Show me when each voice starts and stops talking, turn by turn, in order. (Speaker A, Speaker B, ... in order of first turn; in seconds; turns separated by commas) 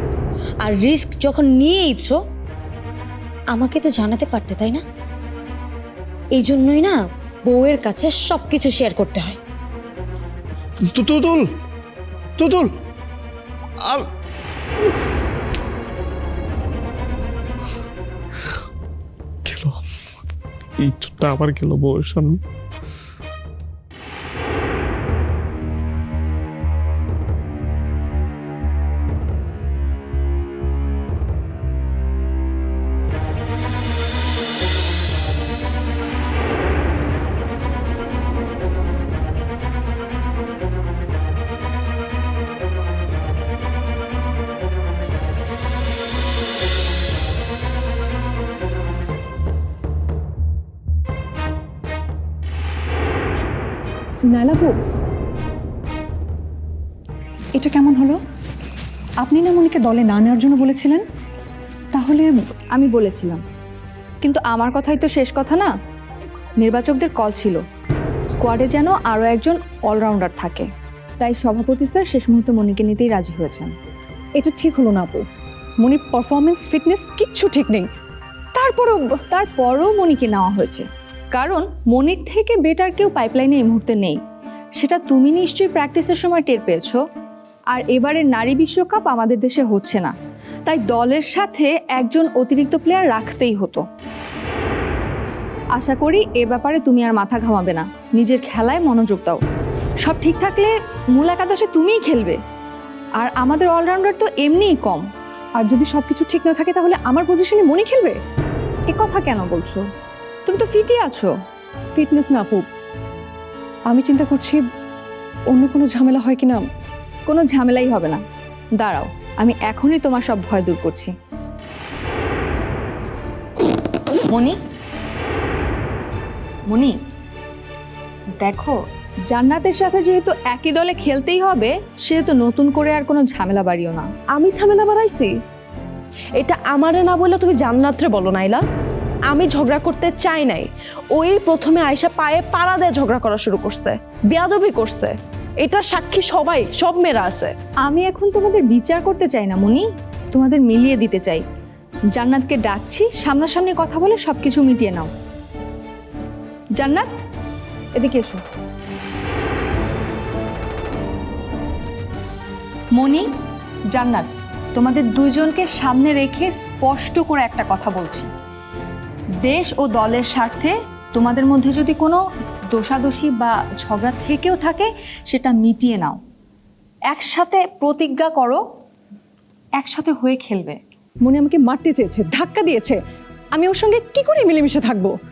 Speaker A: 0.6-2.2, Speaker A: 3.5-4.8, Speaker A: 6.4-9.4, Speaker B: 10.9-11.5, Speaker B: 12.4-12.7, Speaker B: 19.5-19.8, Speaker B: 20.8-22.4, Speaker C: 54.3-54.7, Speaker C: 57.6-58.2, Speaker C: 59.2-61.0, Speaker C: 61.9-62.5, Speaker D: 62.7-63.4, Speaker D: 64.2-65.7, Speaker D: 66.6-67.6, Speaker D: 68.4-70.7, Speaker D: 71.2-73.7, Speaker C: 74.4-75.3, Speaker C: 75.8-77.9, Speaker C: 78.6-79.1, Speaker D: 79.3-84.2, Speaker D: 84.8-87.0, Speaker D: 87.7-90.1, Speaker D: 90.7-93.8, Speaker D: 95.8-99.4, Speaker D: 100.1-102.4, Speaker D: 103.2-105.0, Speaker C: 105.6-108.2, Speaker D: 108.9-109.8, Speaker D: 110.5-111.3, Speaker C: 112.0-112.7, Speaker C: 113.9-114.6, Speaker C: 115.5-116.6, Speaker D: 117.3-118.2, Speaker D: 118.8-121.1, Speaker D: 124.3-124.6, Speaker D: 126.7-127.0, Speaker D: 128.4-128.8, Speaker D: 129.3-134.1, Speaker E: 134.3-135.3, Speaker E: 136.4-138.6, Speaker E: 139.3-145.1, Speaker E: 145.6-147.6, Speaker D: 147.9-151.4, Speaker D: 152.2-155.1, Speaker D: 156.8-157.2, Speaker D: 158.0-158.4, Speaker D: 163.0-163.3, Speaker D: 163.9-168.3, Speaker D: 169.4-176.2, Speaker D: 177.1-178.6, Speaker D: 179.8-180.8, Speaker C: 181.3-183.0, Speaker C: 183.5-185.1